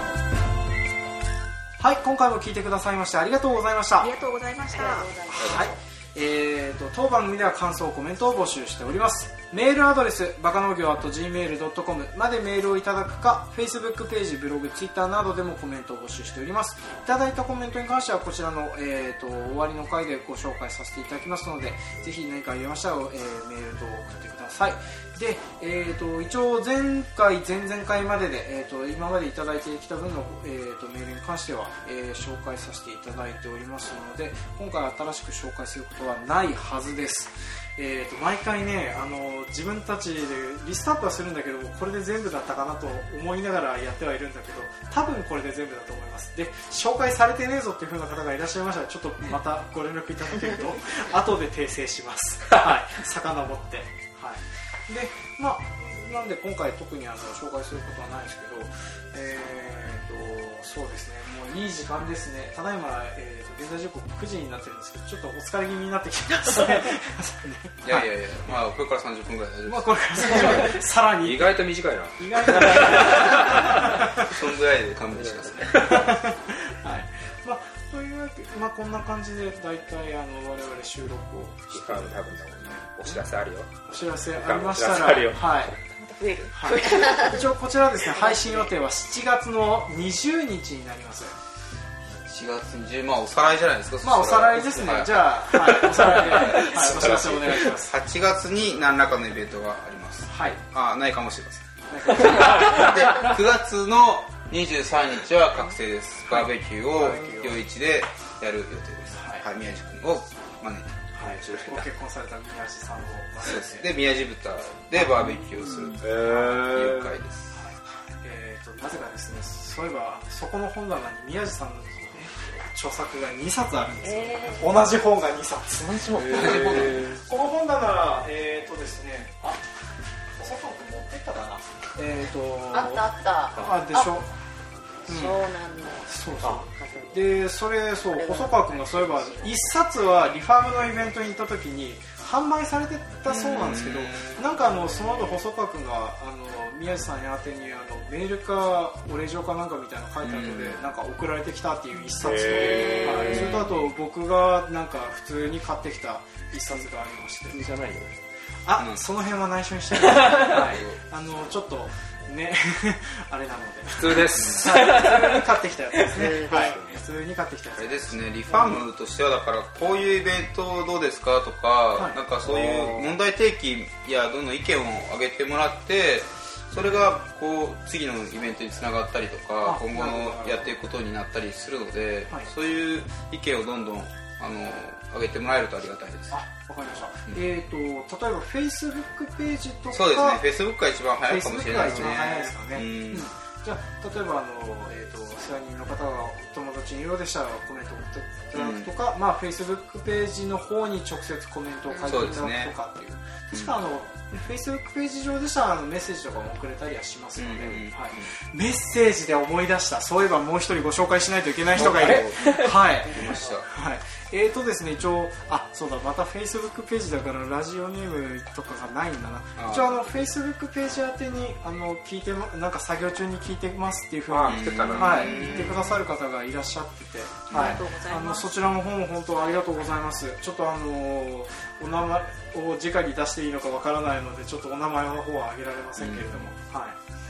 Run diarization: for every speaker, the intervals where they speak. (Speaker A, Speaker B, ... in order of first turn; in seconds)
Speaker A: 1.8-4.1, 5.4-68.6, 69.7-74.4, 75.8-83.3, 83.9-85.8, 86.5-91.4, 94.0-97.9, 100.3-100.6, 101.9-103.0, 106.3-107.6, 109.1-109.5, 111.1-113.9, 114.9-116.6, 117.5-129.6, 130.4-133.1, 133.6-134.3, 135.1-135.4, 136.1-157.6, 158.6-168.9, 172.0-172.2, 176.8-177.2, 179.6-180.8, 186.3-190.4, 191.3-237.0
Speaker B: 4.0-5.1, 85.9-87.5, 88.0-88.8, 152.6-153.5, 227.5-228.7
Speaker C: 4.7-5.8, 124.0-124.8, 132.7-134.1, 135.1-137.5, 138.1-139.6, 152.7-153.6, 166.1-166.8
Speaker D: 5.3-5.7, 67.8-70.7, 72.7-73.3, 74.2-76.1, 92.2-111.5, 113.4-117.6, 126.2-127.1, 143.2-144.6, 150.2-150.8, 158.8-159.1, 160.4-161.0, 164.3-164.8, 167.8-186.4, 189.9-193.3, 198.5-198.9, 202.0-202.8, 203.5-203.8, 207.4-208.3, 211.7-213.7, 219.6-220.1, 224.4-226.0, 227.5-227.8, 236.0-236.5
Speaker E: 71.2-74.0, 75.1-76.1, 81.7-85.8, 96.4-97.3, 111.2-111.9, 116.0-117.2, 152.2-153.7, 163.9-164.8, 166.6-166.9, 172.4-173.1, 211.8-212.7, 224.3-225.5
Speaker F: 125.8-127.1, 133.6-133.8, 156.6-156.9, 157.5-158.2, 160.1-160.5, 164.8-165.3